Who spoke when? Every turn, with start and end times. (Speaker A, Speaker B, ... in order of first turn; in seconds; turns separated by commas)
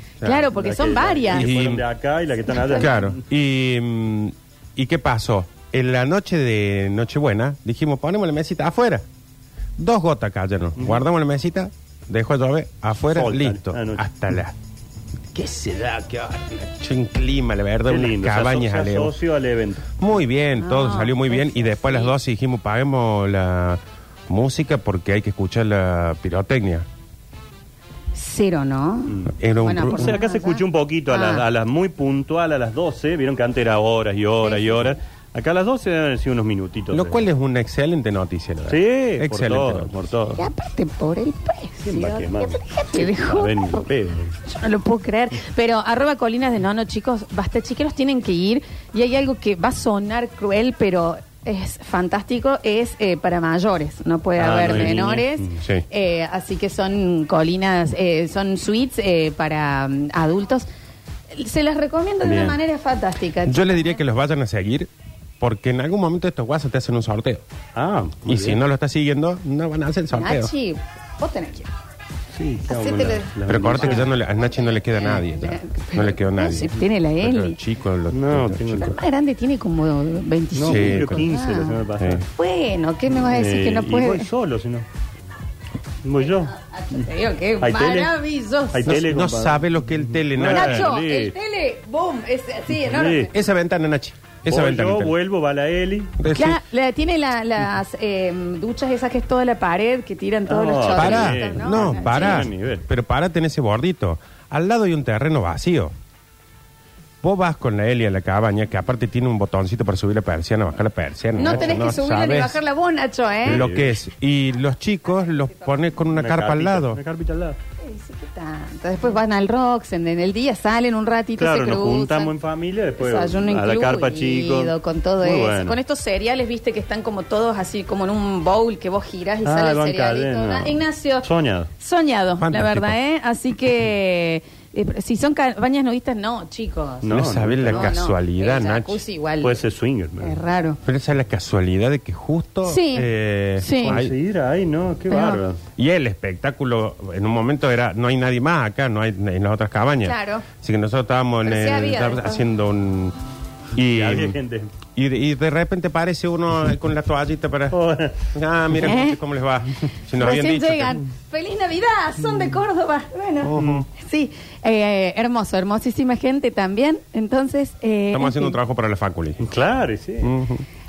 Speaker A: 0.2-0.5, Speaker B: 0.2-1.5, Speaker C: 0.5-3.2, Speaker A: 1.3-1.9, Speaker B: 2.5-3.0, Speaker A: 2.7-9.1, Speaker A: 9.8-14.6, Speaker C: 10.8-11.0, Speaker C: 13.1-14.0, Speaker A: 15.3-19.2, Speaker C: 17.9-19.9, Speaker A: 20.0-26.9, Speaker B: 20.6-22.1, Speaker B: 28.1-31.4, Speaker A: 29.3-30.2, Speaker C: 29.9-37.2, Speaker B: 34.4-34.9, Speaker A: 36.9-39.9, Speaker C: 38.7-40.4, Speaker B: 40.4-43.9, Speaker C: 41.8-44.4, Speaker B: 44.5-60.7, Speaker C: 54.4-55.6, Speaker B: 61.3-64.0, Speaker C: 62.2-62.6, Speaker A: 63.4-67.4, Speaker C: 67.8-68.6, Speaker A: 68.2-70.5, Speaker B: 70.1-71.7, Speaker C: 72.3-74.1, Speaker B: 72.7-74.1, Speaker A: 73.5-79.0, Speaker B: 75.0-77.6, Speaker C: 78.1-79.0, Speaker B: 78.8-84.3, Speaker C: 80.5-82.2, Speaker A: 80.7-81.2, Speaker C: 83.2-84.8, Speaker C: 86.0-87.1, Speaker B: 86.7-88.9, Speaker C: 87.6-88.1, Speaker C: 88.7-91.3, Speaker A: 88.9-90.9, Speaker B: 90.5-93.3, Speaker C: 92.8-93.3, Speaker A: 93.3-95.2, Speaker C: 94.5-96.2, Speaker A: 96.2-96.6, Speaker B: 96.3-102.5, Speaker C: 100.5-102.9, Speaker A: 100.9-105.9, Speaker A: 107.2-112.6, Speaker B: 111.4-113.7, Speaker C: 113.5-114.0, Speaker A: 113.5-117.0, Speaker C: 116.1-117.6, Speaker B: 117.8-122.3, Speaker C: 121.4-125.8, Speaker B: 123.0-131.3, Speaker C: 129.4-131.7, Speaker B: 131.8-137.1, Speaker A: 132.4-133.0, Speaker C: 137.0-137.9, Speaker A: 137.1-139.0, Speaker B: 137.6-139.6, Speaker C: 139.4-140.4, Speaker B: 140.2-140.8, Speaker A: 140.8-144.1, Speaker B: 142.7-143.1, Speaker B: 143.6-144.0, Speaker C: 143.8-145.6, Speaker B: 145.1-145.4, Speaker A: 145.8-153.2, Speaker B: 150.0-150.5, Speaker B: 151.4-152.4, Speaker A: 153.8-154.4, Speaker C: 153.8-154.7, Speaker A: 155.0-161.0, Speaker C: 157.7-158.3, Speaker B: 158.8-159.2, Speaker B: 160.2-168.6, Speaker A: 163.4-163.9, Speaker C: 163.6-163.8, Speaker A: 168.1-169.5, Speaker C: 169.4-170.3, Speaker A: 170.2-170.7